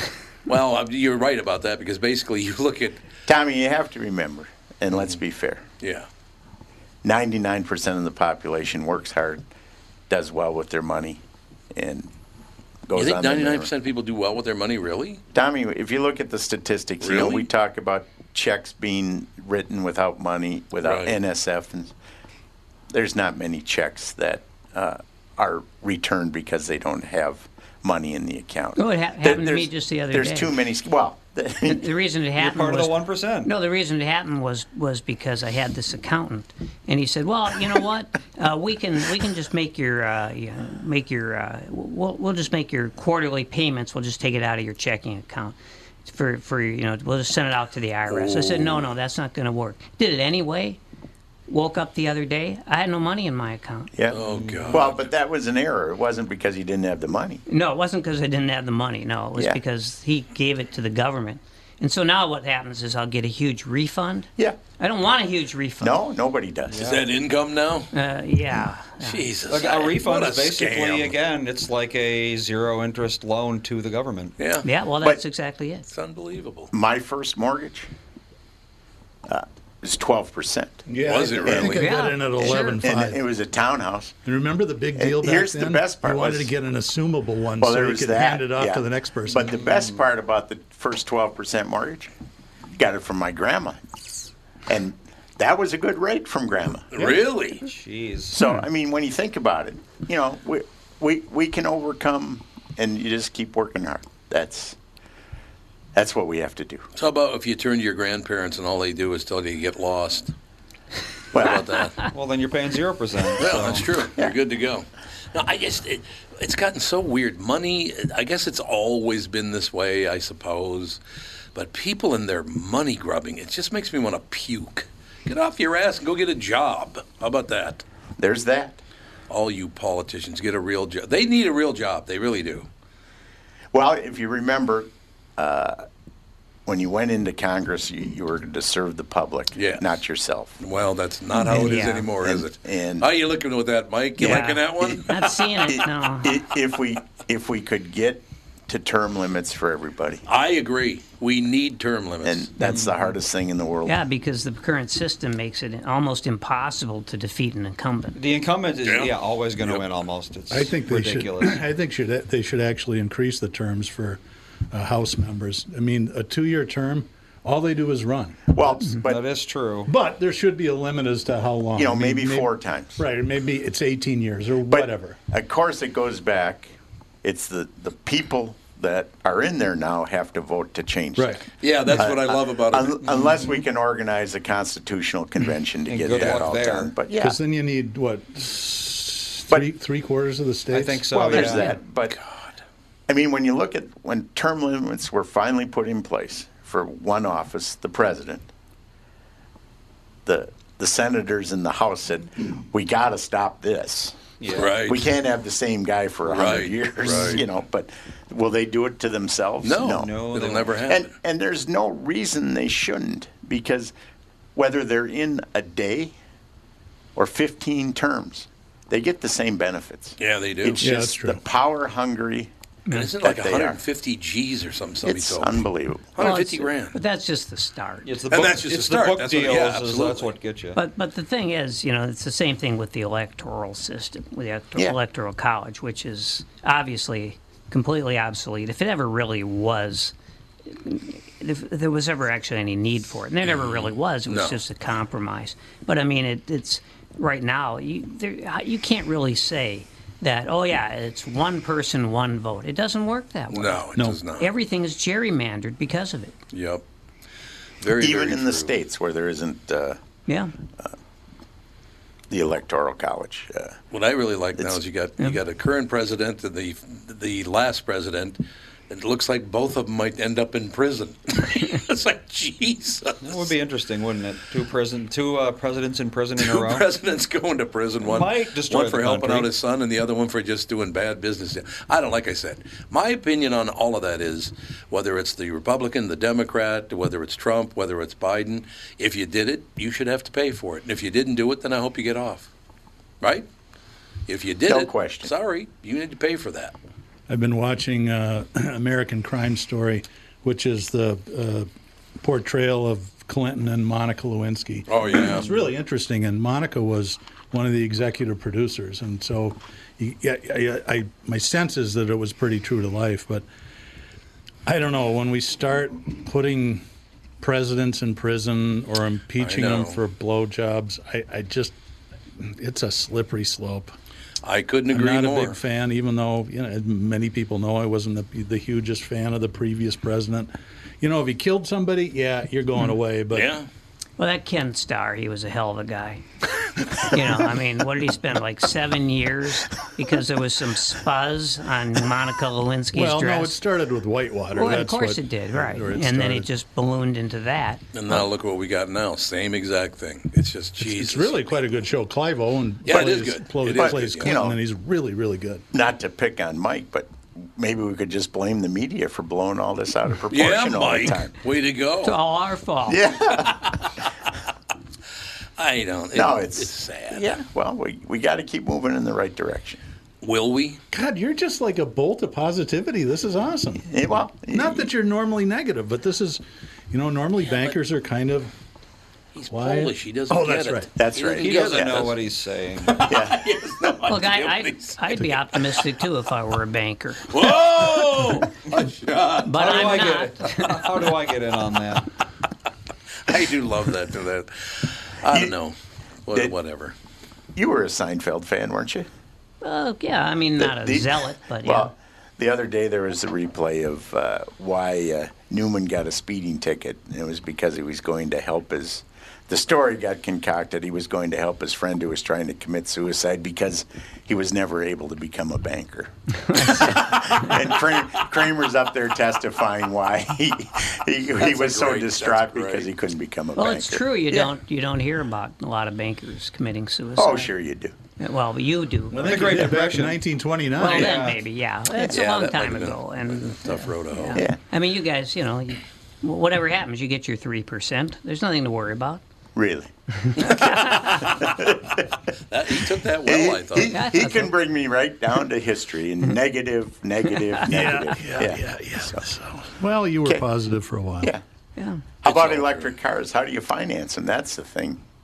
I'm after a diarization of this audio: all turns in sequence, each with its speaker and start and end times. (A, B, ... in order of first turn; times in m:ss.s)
0:00.5-0:03.0 A
0:03.3-0:05.6 B
0:05.8-0:06.1 A
0:07.0-0:09.4 B
0:10.1-0:11.2 B
0:11.7-0:12.1 B
0:12.9-0:13.7 B
0:13.0-0:15.2 A
0:15.3-0:21.9 B
0:17.0-0:17.5 A
0:20.8-0:21.2 A
0:22.9-0:31.9 B
0:28.8-0:30.5 C
0:31.6-0:50.8 C
0:32.4-0:33.5 D
0:48.1-0:48.9 A
0:51.5-0:54.0 C
0:53.9-0:57.4 B
0:54.1-0:55.1 A
0:54.2-0:54.8 D
0:57.5-1:06.0 C
0:59.4-0:59.6 B
1:05.8-1:07.0 B
1:06.7-1:07.0 D
1:06.8-1:07.9 A
1:07.9-1:09.3 C
1:09.0-1:11.2 A
1:09.5-1:14.4 D
1:14.4-1:14.7 A
1:14.6-1:15.9 C
1:15.9-1:16.7 A
1:16.7-1:17.9 B
1:19.3-1:24.2 B
1:20.9-1:23.2 E
1:21.0-1:21.9 A
1:21.7-1:22.8 C
1:24.2-1:29.5 E
1:25.0-1:26.5 B
1:27.6-1:32.1 B
1:32.7-1:33.8 B
1:34.7-1:37.0 B
1:36.9-1:37.7 A
1:37.0-1:38.4 D
1:38.3-1:44.8 B
1:46.0-1:46.9 B
1:47.0-1:50.3 A
1:51.3-1:51.7 B
1:51.3-1:52.0 A
1:52.1-1:53.9 D
1:53.4-2:01.0 A
2:01.5-2:07.8 A
2:08.2-2:08.8 B
2:09.3-2:12.7 A
2:13.7-2:15.8 B
2:16.7-2:20.6 B
2:19.6-2:19.9 A
2:20.6-2:25.3 A
2:21.4-2:22.1 C
2:21.5-2:23.1 B
2:24.2-2:30.2 B
2:24.2-2:26.4 C
2:30.3-2:32.5 A
2:32.2-2:34.0 B
2:32.6-2:33.0 D
2:33.9-2:38.2 C
2:38.2-2:41.6 D
2:38.8-2:39.8 A
2:40.5-2:48.5 E
2:48.5-2:49.2 B
2:49.0-2:49.9 D
2:49.9-2:55.2 E
2:51.8-2:53.0 B
2:54.7-3:07.4 B
3:01.2-3:01.4 E
3:01.6-3:03.1 A
3:05.9-3:06.9 D
3:06.1-3:06.4 A
3:07.2-3:11.3 E
3:10.7-3:11.7 D
3:11.1-3:12.2 B
3:11.4-3:11.7 C
3:13.1-3:18.5 B
3:20.3-3:30.1 B
3:24.4-3:24.8 D
3:24.5-3:25.0 A
3:26.3-3:27.4 A
3:29.6-3:31.1 A
3:29.9-3:30.8 D
3:30.8-3:33.9 B
3:34.6-3:36.2 B
3:37.2-3:42.5 B
3:40.2-3:40.9 A
3:40.8-3:41.4 E
3:42.9-3:47.0 A
3:43.2-3:43.8 B
3:45.0-3:46.2 B
3:46.2-3:48.1 C
3:48.0-3:50.8 D
3:48.3-3:50.3 A
3:50.8-4:00.1 C
4:00.7-4:16.4 C
4:03.4-4:04.6 A
4:13.5-4:14.5 A
4:16.5-4:16.8 A
4:17.8-4:18.7 A
4:17.9-4:20.0 B
4:20.3-4:20.5 C
4:22.3-4:23.8 B
4:23.9-4:33.5 A
4:33.2-4:36.9 D
4:36.4-4:52.5 A
4:38.0-4:39.5 D
4:53.2-4:53.5 A
4:54.3-4:56.8 A
4:54.7-4:55.3 B
4:57.3-5:01.7 E
5:02.2-5:13.4 E
5:04.9-5:05.5 A
5:14.7-5:16.8 E
5:17.4-5:21.7 E
5:19.4-5:20.0 A
5:22.4-5:23.9 E
5:24.4-5:25.6 A
5:24.9-5:30.5 E
5:31.0-5:33.5 E
5:33.3-5:33.7 A
5:34.2-5:36.2 C
5:36.8-5:43.6 C
5:42.9-5:46.5 E
5:44.5-5:48.2 C
5:47.9-5:51.5 A
5:50.8-5:55.6 E
5:52.9-5:54.4 A
5:53.7-5:54.6 B
5:55.7-6:01.3 B
6:00.3-6:02.2 A
6:02.0-6:03.0 C
6:02.9-6:03.7 B
6:03.4-6:04.0 A
6:05.6-6:07.2 A
6:06.1-6:09.8 B
6:10.2-6:10.8 A
6:10.9-6:13.9 E
6:13.9-6:14.9 B
6:14.5-6:18.5 E
6:19.4-6:22.2 A
6:19.5-6:20.9 E
6:21.0-6:22.0 B
6:21.4-6:23.1 D
6:22.8-6:25.9 A
6:23.0-6:23.4 B
6:24.1-6:27.4 C
6:27.3-6:29.8 A
6:29.4-6:30.9 C
6:29.5-6:32.1 D
6:33.3-6:35.8 A
6:35.3-6:35.5 B
6:36.3-6:36.9 A
6:37.6-6:39.1 B
6:39.6-6:41.9 C
6:40.6-7:04.5 B
7:01.4-7:02.9 A
7:03.6-7:07.5 C
7:07.2-7:08.0 B
7:08.2-7:09.6 C
7:09.1-7:11.2 E
7:09.2-7:10.2 D
7:10.8-7:19.2 C
7:10.8-7:11.4 D
7:12.1-7:14.4 A
7:19.6-7:22.0 B
7:20.4-7:21.4 A
7:20.5-7:21.1 C
7:22.5-7:24.0 A
7:23.2-7:29.2 B
7:23.9-7:24.5 C
7:27.7-7:31.3 E
7:31.8-7:32.0 C
7:32.2-7:35.0 B
7:32.2-7:32.9 A